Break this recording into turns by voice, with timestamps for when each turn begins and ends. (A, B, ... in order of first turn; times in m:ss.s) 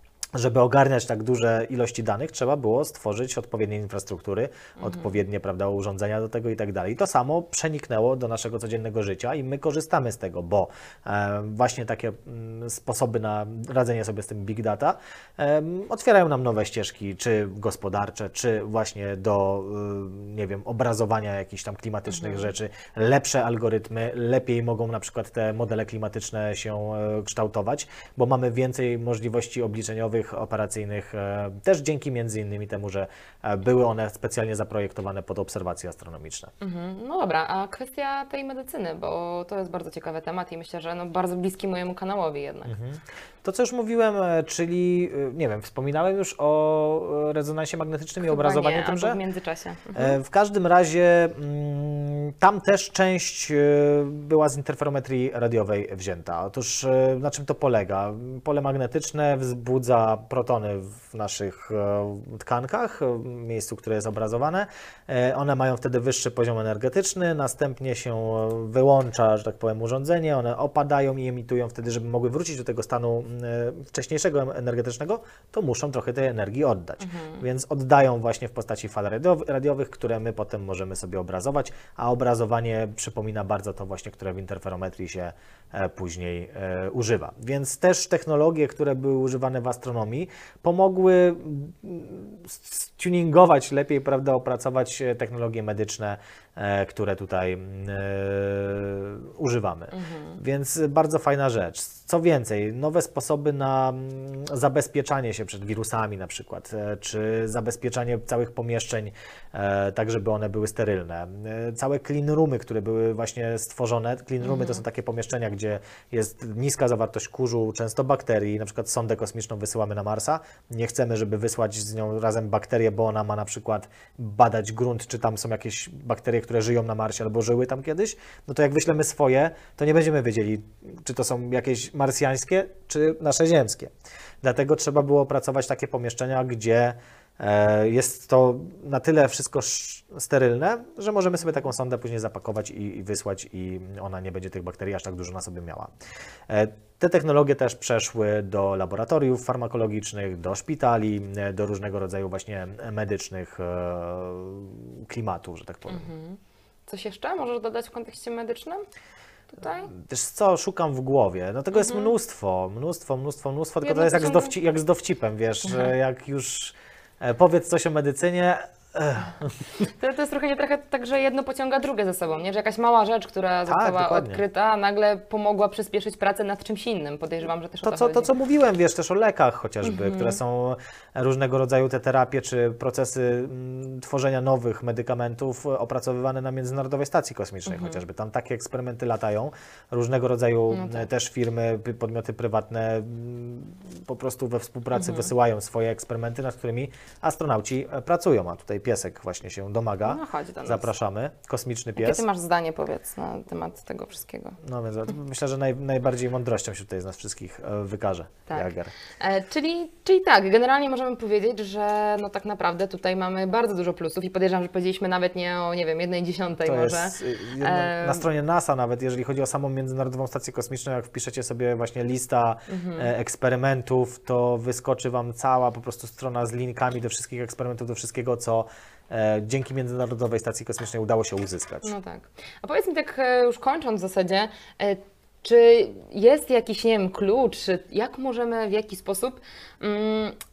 0:00.4-0:36.5 A
0:04.8-0:05.1 B
0:22.1-0:22.5 B
0:36.6-0:42.7 B
0:42.7-0:49.2 A
0:48.2-0:50.2 B
0:49.9-2:13.9 A
1:17.0-1:17.4 B
1:39.9-1:40.4 B
1:54.4-1:54.8 B
2:14.4-2:25.9 A
2:26.5-2:36.1 A
2:35.9-2:38.8 B
2:39.5-2:39.9 B
2:39.9-2:49.8 A
2:41.8-2:42.1 B
2:43.8-2:44.5 B
2:49.9-2:58.3 B
2:53.7-2:54.4 A
2:57.8-3:22.2 A
2:59.8-3:00.4 B
3:07.7-3:08.0 B
3:10.7-3:11.1 B
3:15.0-3:15.3 B
3:20.0-3:20.9 B
3:22.0-3:24.6 B
3:24.6-3:28.9 A
3:28.5-3:38.2 B
3:36.6-3:51.9 A
3:42.7-3:43.1 B
3:51.8-4:00.4 B